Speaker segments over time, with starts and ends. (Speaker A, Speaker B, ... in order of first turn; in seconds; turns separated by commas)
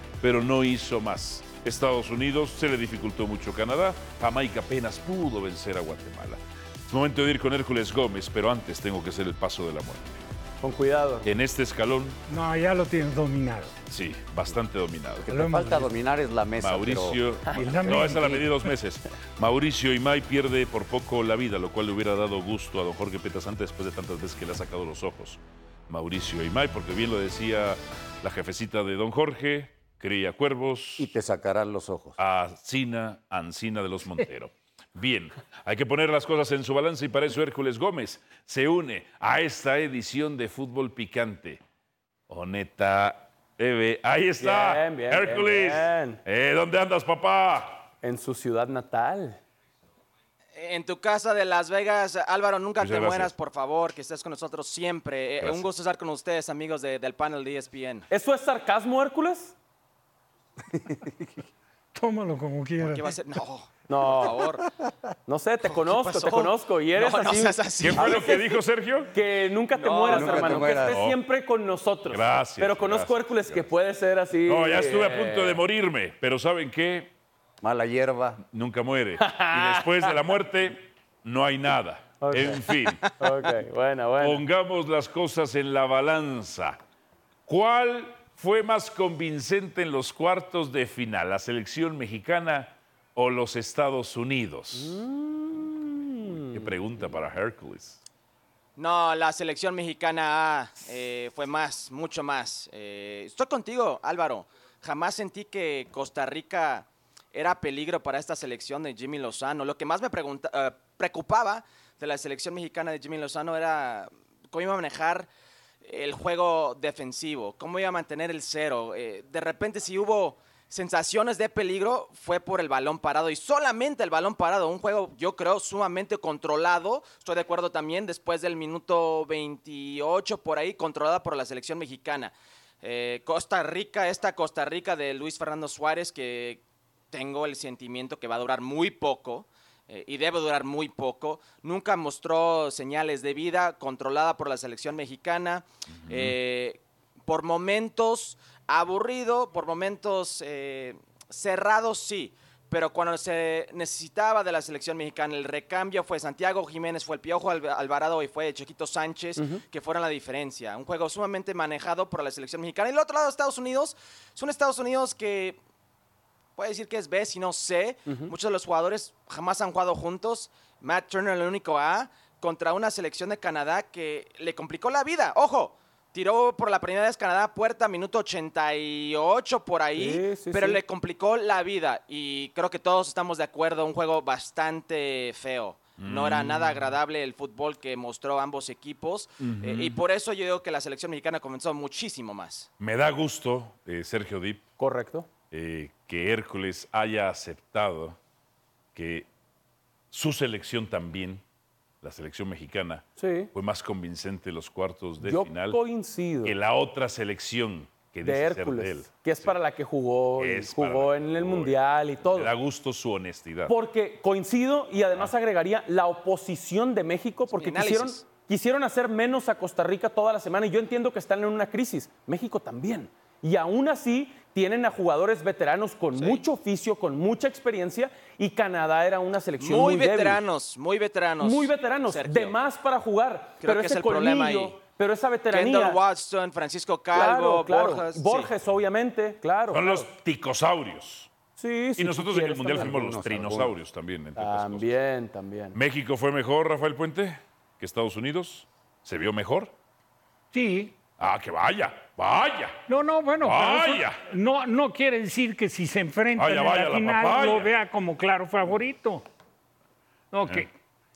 Speaker A: 0.2-10.2, Speaker B: 10.6-11.3, Speaker A: 11.2-12.2, Speaker C: 12.3-13.7, Speaker A: 13.9-15.3, Speaker D: 15.3-17.2, Speaker C: 15.3-15.9, Speaker A: 16.6-31.1, Speaker C: 17.5-18.7, Speaker D: 31.0-32.2, Speaker A: 32.2-41.6, Speaker A: 42.3-47.9, Speaker B: 44.4-46.2, Speaker B: 48.0-49.4, Speaker E: 50.5-58.1, Speaker A: 52.8-53.3, Speaker B: 58.1-59.5, Speaker C: 62.0-63.1, Speaker E: 62.8-64.6, Speaker B: 63.9-64.4, Speaker B: 65.3-68.6, Speaker E: 65.7-68.5, Speaker A: 67.8-69.1, Speaker B: 69.1-75.6, Speaker E: 69.8-71.0, Speaker D: 70.1-71.0, Speaker A: 70.9-71.2, Speaker A: 72.1-73.6, Speaker A: 74.5-77.1, Speaker D: 77.6-78.4, Speaker A: 78.5-83.0, Speaker B: 79.2-80.2, Speaker B: 82.2-84.5, Speaker A: 84.2-86.8, Speaker A: 87.5-95.0, Speaker B: 94.8-97.1, Speaker A: 96.5-98.0, Speaker E: 98.8-115.3, Speaker E: 115.8-165.6, Speaker A: 146.0-146.3, Speaker B: 159.4-159.6, Speaker E: 166.6-192.7, Speaker B: 168.1-168.3, Speaker B: 180.0-180.8, Speaker A: 186.0-187.0, Speaker A: 189.4-190.0, Speaker A: 192.8-194.6, Speaker B: 194.8-195.3, Speaker A: 195.5-198.2, Speaker A: 198.9-199.3, Speaker A: 200.1-201.4, Speaker A: 202.0-205.8, Speaker B: 203.2-203.5, Speaker B: 205.2-206.6, Speaker A: 206.4-209.6, Speaker B: 208.2-212.5, Speaker A: 210.4-211.8, Speaker A: 212.3-213.8, Speaker B: 213.7-230.4, Speaker E: 217.5-218.2, Speaker E: 226.2-226.4, Speaker E: 229.6-232.6, Speaker B: 231.4-236.0, Speaker E: 233.6-234.8, Speaker E: 235.5-238.5, Speaker B: 237.1-240.1, Speaker A: 239.7-241.3, Speaker B: 241.6-243.2, Speaker A: 242.0-244.9, Speaker D: 242.8-243.8, Speaker B: 244.4-245.8, Speaker A: 245.7-249.7, Speaker C: 250.5-250.9, Speaker A: 251.2-252.8, Speaker C: 252.9-259.2, Speaker A: 253.4-254.2, Speaker A: 256.4-257.7, Speaker C: 260.3-260.7